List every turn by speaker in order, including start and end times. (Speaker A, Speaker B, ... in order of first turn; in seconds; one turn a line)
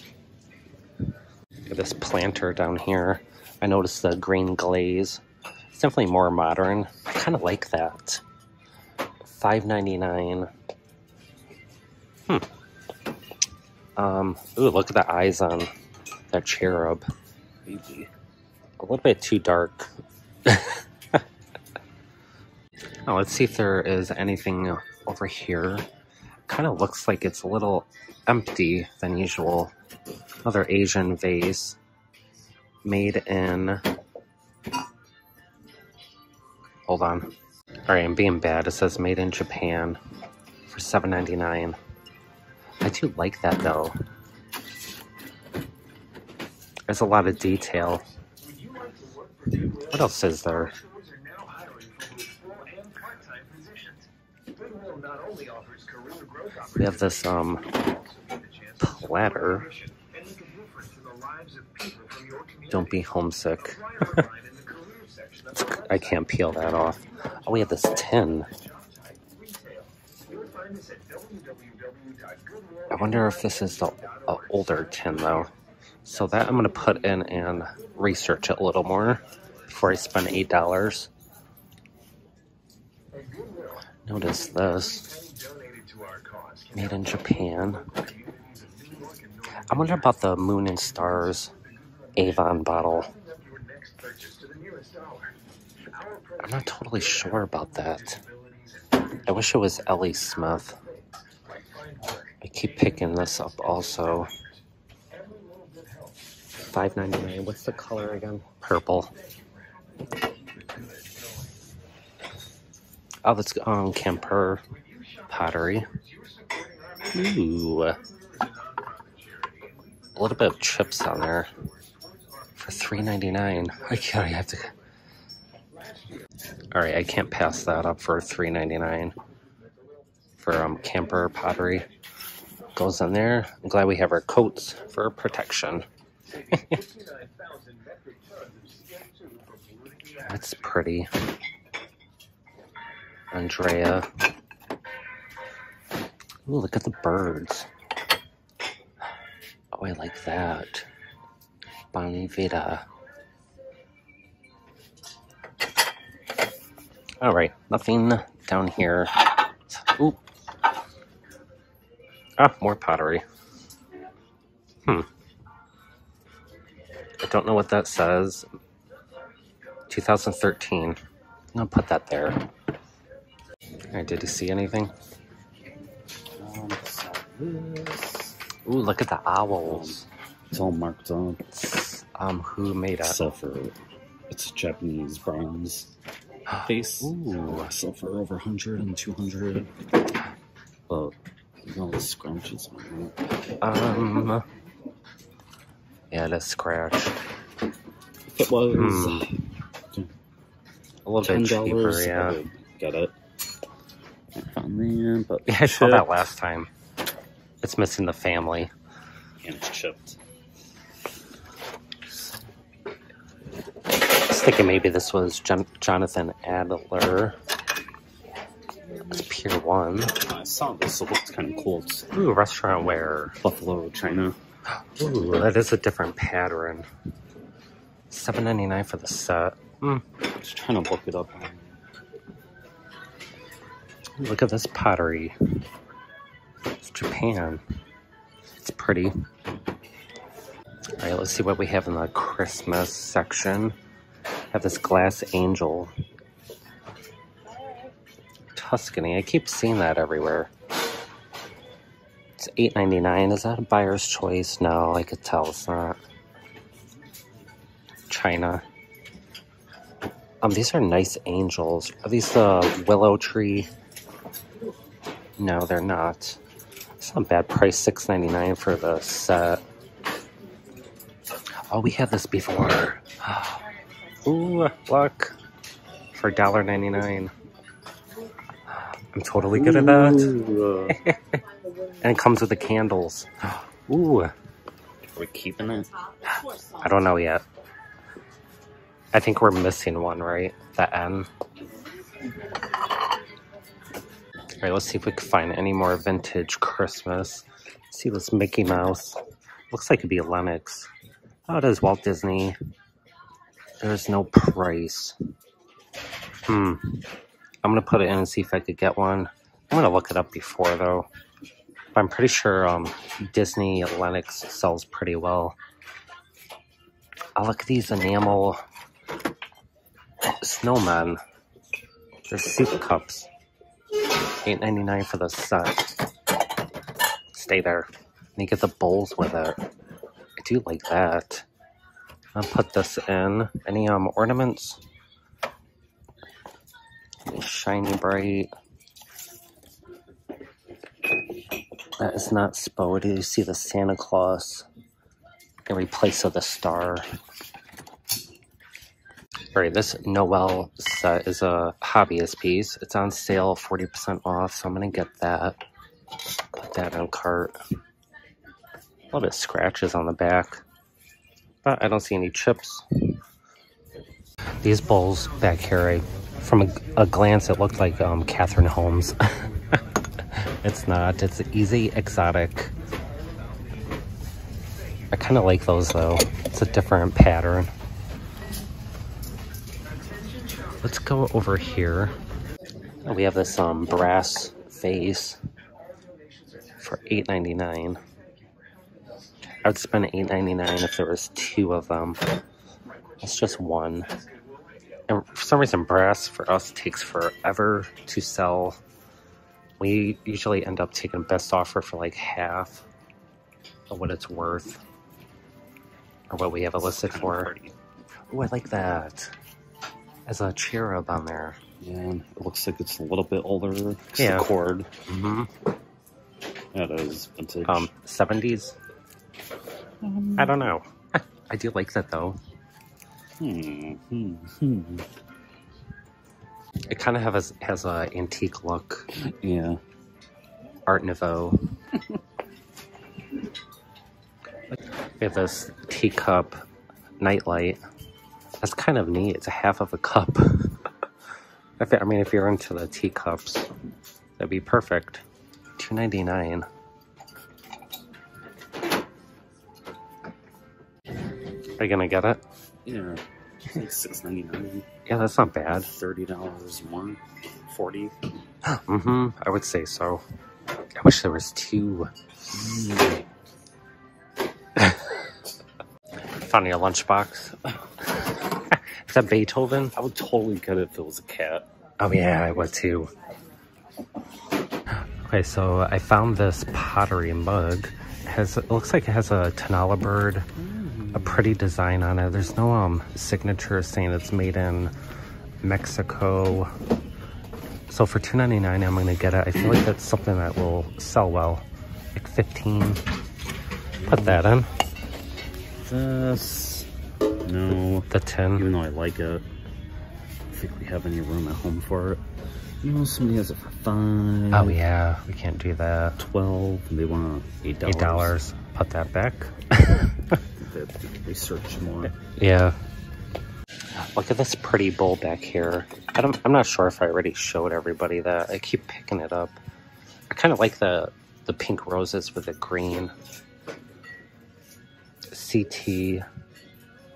Speaker A: 1.7-8.2
Speaker A: 9.2-10.5
Speaker A: 14.0-15.7
Speaker A: 16.3-17.1
Speaker B: 17.7-18.1
Speaker A: 18.8-19.9
Speaker A: 20.5-21.2
Speaker A: 23.1-25.9
Speaker A: 26.5-29.7
Speaker A: 30.4-31.8
Speaker A: 32.9-33.8
Speaker A: 36.9-37.3
Speaker A: 37.9-40.0
Speaker A: 40.7-41.8
Speaker A: 42.8-44.0
Speaker A: 46.9-48.0
Speaker A: 49.6-50.8
Speaker A: 56.7-57.7
Speaker A: 58.8-59.8
Speaker A: 62.7-64.3
Speaker A: 65.5-68.5
Speaker A: 72.9-75.5
Speaker A: 76.0-81.1
Speaker A: 84.1-85.2
Speaker A: 86.7-87.9
Speaker A: 89.7-91.5
Speaker A: 92.2-93.1
Speaker A: 96.4-98.2
Speaker A: 99.2-100.8
Speaker A: 102.4-104.3
Speaker A: 106.7-109.1
Speaker A: 113.2-114.6
Speaker A: 115.3-115.9
Speaker A: 117.1-118.0
Speaker A: 120.2-121.5
Speaker A: 122.6-124.7
Speaker A: 126.7-129.2
Speaker A: 130.4-131.9
Speaker A: 132.8-135.8
Speaker A: 136.5-136.8
Speaker A: 140.2-141.1
Speaker A: 143.3-144.1
Speaker A: 146.5-147.7
Speaker A: 149.7-150.9
Speaker A: 151.9-152.8
Speaker A: 157.2-160.2
Speaker A: 162.4-163.2
Speaker A: 167.2-168.5
Speaker A: 169.9-171.0
Speaker A: 171.5-172.4
Speaker A: 173.9-174.9
Speaker B: 176.4-178.4
Speaker A: 178.7-180.1
Speaker B: 179.7-179.9
Speaker B: 180.5-181.4
Speaker A: 181.5-183.2
Speaker B: 183.0-183.8
Speaker B: 184.3-185.9
Speaker B: 186.6-189.7
Speaker A: 187.0-187.7
Speaker B: 190.9-193.2
Speaker A: 193.6-194.4
Speaker A: 196.1-197.1
Speaker B: 198.3-199.4
Speaker A: 198.7-199.3
Speaker A: 201.1-202.4
Speaker B: 201.2-203.1
Speaker B: 204.3-206.2
Speaker A: 205.5-206.7
Speaker A: 207.6-208.7
Speaker B: 209.4-210.2
Speaker A: 214.1-217.4
Speaker A: 218.9-220.2
Speaker B: 220.2-222.1
Speaker A: 222.1-223.4
Speaker B: 223.4-224.4
Speaker A: 224.8-226.9
Speaker A: 228.1-230.0
Speaker B: 230.4-231.8
Speaker A: 234.2-235.4
Speaker A: 236.8-237.6
Speaker A: 238.6-239.1
Speaker A: 241.0-243.8
Speaker A: 244.5-245.9
Speaker A: 248.5-250.5
Speaker A: 252.4-256.0
Speaker A: 258.1-258.6
Speaker A: 260.4-263.7
Speaker A: 265.4-266.4
Speaker A: 267.0-269.6
Speaker A: 271.7-273.6
Speaker A: 274.2-275.4
Speaker A: 276.1-277.3
Speaker A: 279.1-280.3
Speaker B: 279.6-281.0
Speaker A: 280.9-281.4
Speaker A: 282.0-284.3
Speaker B: 285.1-285.9
Speaker A: 286.7-287.4
Speaker A: 289.1-291.3
Speaker A: 294.6-299.2
Speaker A: 299.7-300.9
Speaker A: 301.5-302.6
Speaker A: 303.8-305.2
Speaker A: 306.5-307.1
Speaker A: 307.6-311.1
Speaker A: 311.9-315.6
Speaker A: 317.4-318.6
Speaker A: 320.4-321.2
Speaker A: 322.3-323.3
Speaker A: 324.4-326.0
Speaker A: 327.3-329.6
Speaker A: 330.4-331.5
Speaker A: 332.3-334.8
Speaker A: 337.3-338.5
Speaker A: 342.0-344.7
Speaker A: 345.7-347.1
Speaker A: 349.5-355.6
Speaker A: 356.5-357.6
Speaker A: 359.1-360.6
Speaker A: 361.6-362.9
Speaker A: 364.6-372.7
Speaker A: 375.1-377.7
Speaker A: 380.8-382.2
Speaker A: 383.0-385.4
Speaker A: 386.8-388.0
Speaker A: 389.6-392.2
Speaker A: 393.2-394.1
Speaker A: 395.1-398.8
Speaker A: 399.8-402.8
Speaker A: 403.9-404.8
Speaker A: 406.3-407.5
Speaker B: 407.0-407.7
Speaker A: 408.3-409.3
Speaker A: 410.3-411.6
Speaker B: 411.8-414.9
Speaker A: 414.2-414.5
Speaker A: 415.1-415.5
Speaker B: 416.7-417.9
Speaker A: 417.7-418.8
Speaker B: 420.0-420.7
Speaker A: 420.4-422.4
Speaker B: 423.4-425.1
Speaker A: 426.9-429.1
Speaker B: 429.2-429.8
Speaker A: 430.9-431.6
Speaker A: 435.2-436.6
Speaker A: 437.2-437.8
Speaker A: 438.6-440.8
Speaker A: 441.8-443.7
Speaker A: 444.4-445.2
Speaker A: 445.8-446.7
Speaker A: 451.8-452.4
Speaker B: 452.9-454.9
Speaker A: 455.1-455.9
Speaker B: 455.9-458.1
Speaker A: 458.7-460.2
Speaker A: 461.0-462.6
Speaker B: 462.5-463.2
Speaker A: 464.8-465.2
Speaker A: 466.3-470.0
Speaker B: 470.0-471.7
Speaker A: 472.0-473.1
Speaker A: 475.1-480.5
Speaker B: 480.6-481.6
Speaker A: 481.1-484.9
Speaker A: 485.6-486.7
Speaker A: 487.9-491.6
Speaker A: 492.2-493.0
Speaker B: 494.0-494.4
Speaker A: 494.1-494.7
Speaker B: 495.8-496.9
Speaker B: 497.4-499.5
Speaker A: 498.1-498.7
Speaker B: 500.5-502.2
Speaker B: 502.8-504.8
Speaker A: 504.5-506.2
Speaker B: 506.2-508.4
Speaker A: 507.9-510.4
Speaker B: 510.6-512.1
Speaker A: 512.2-512.8
Speaker A: 514.0-519.6
Speaker A: 520.3-523.1
Speaker A: 525.3-526.2